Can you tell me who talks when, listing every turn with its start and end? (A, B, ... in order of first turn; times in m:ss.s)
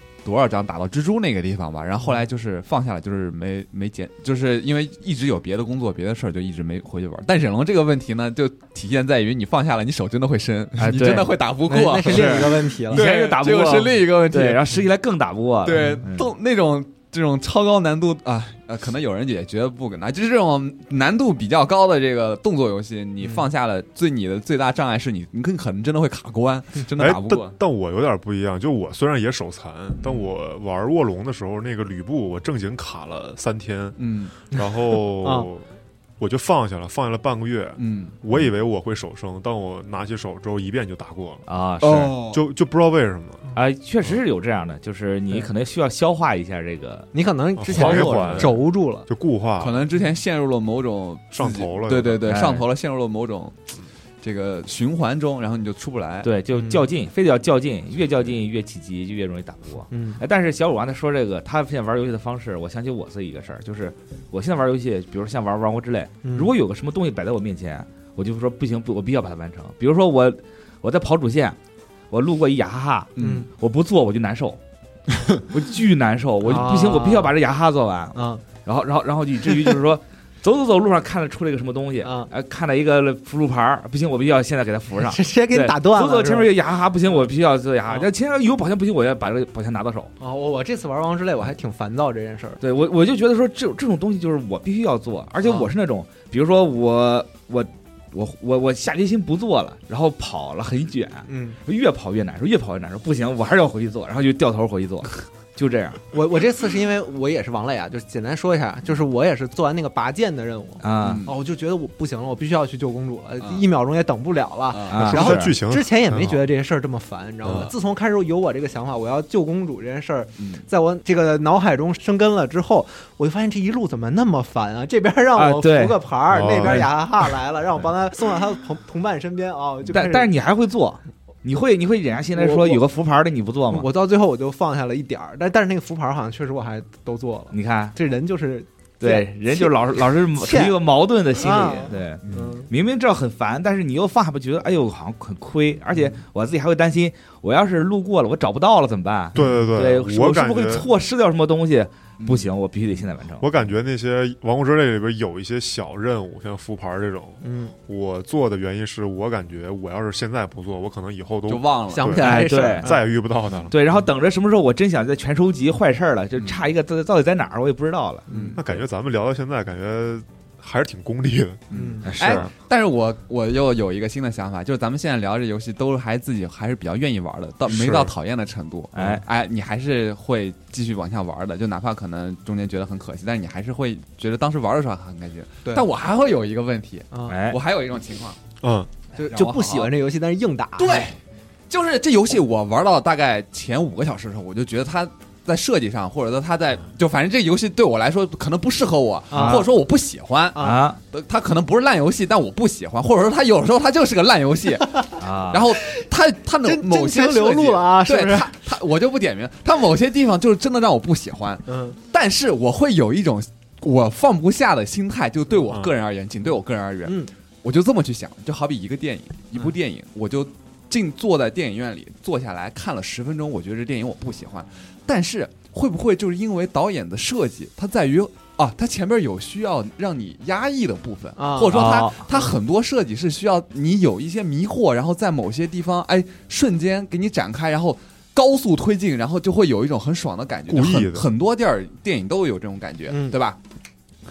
0:00.2-0:14.8 A
0:10.8-0:11.4 B
0:11.7-0:13.0 C
0:12.0-0:16.3 B
0:15.6-0:27.6 A
0:15.7-0:16.0 C
0:23.2-0:23.5 C
0:27.0-0:34.0 D
0:34.0-0:34.3 A
0:34.5-0:35.6 D
0:35.2-0:35.5 C
0:36.2-0:41.4 D
0:37.8-0:38.2 A
0:41.5-0:42.2 B
0:41.8-0:42.4 A
0:42.3-0:43.5 D
0:43.6-0:47.1 B
0:47.1-0:49.1 C
0:47.6-0:49.8 D
0:47.7-0:48.5 B
0:49.6-0:53.6 A
0:51.3-0:52.2 D
0:52.3-0:52.6 B
0:54.2-0:56.3 A
0:56.2-1:11.6 B
0:56.5-0:56.9 C
0:59.9-1:00.2 C
1:06.2-1:06.5 C
1:12.1-1:14.6 B
1:13.2-1:13.4 A
1:13.2-1:13.5 C
1:15.4-1:30.1 B
1:16.4-1:17.4 C
1:18.1-1:18.4 C
1:22.0-1:22.3 C
1:25.0-1:26.5 C
1:30.2-1:32.6 C
1:32.6-1:46.0 B
1:35.4-1:35.7 C
1:41.3-1:41.6 C
1:46.1-2:10.3 C
1:50.8-1:51.2 B
1:51.0-1:51.4 A
1:54.7-1:55.1 A
1:54.9-1:55.6 B
1:55.0-1:56.4 D
1:57.4-1:57.7 D
2:00.4-2:00.6 A
2:05.4-2:06.9 B
2:06.3-2:06.9 D
2:09.9-2:13.9 B
2:12.4-2:12.8 C
2:13.7-2:20.8 C
2:17.5-2:18.0 B
2:19.0-2:33.5 B
2:21.4-2:22.7 C
2:29.4-2:30.9 D
2:29.4-2:29.6 C
2:32.2-2:32.5 A
2:33.4-2:43.8 D
2:37.4-2:37.7 C
2:41.5-2:42.4 A
2:41.9-2:43.0 C
2:42.2-2:42.9 B
2:43.7-2:48.3 B
2:48.3-2:48.6 A
2:48.3-2:48.6 C
2:48.6-2:51.6 D
2:51.7-3:08.4 A
2:51.7-2:52.1 C
2:52.0-2:52.5 B
2:52.2-2:52.5 D
2:57.6-2:58.1 D
2:58.9-2:59.2 B
3:07.1-3:07.4 C
3:07.3-3:07.6 B
3:08.6-3:08.9 D
3:09.2-3:11.1 C
3:09.3-3:09.9 A
3:10.8-3:11.2 A
3:11.7-4:03.6 A
3:19.3-3:19.7 C
3:19.3-3:19.6 B
3:20.6-3:20.8 C
3:20.6-3:21.0 B
3:25.2-3:25.6 B
3:26.6-3:28.5 C
3:31.7-3:32.0 C
3:37.0-3:37.3 C
3:51.4-3:52.5 C
3:51.7-3:52.3 B
4:00.7-4:01.3 D
4:03.1-4:03.4 C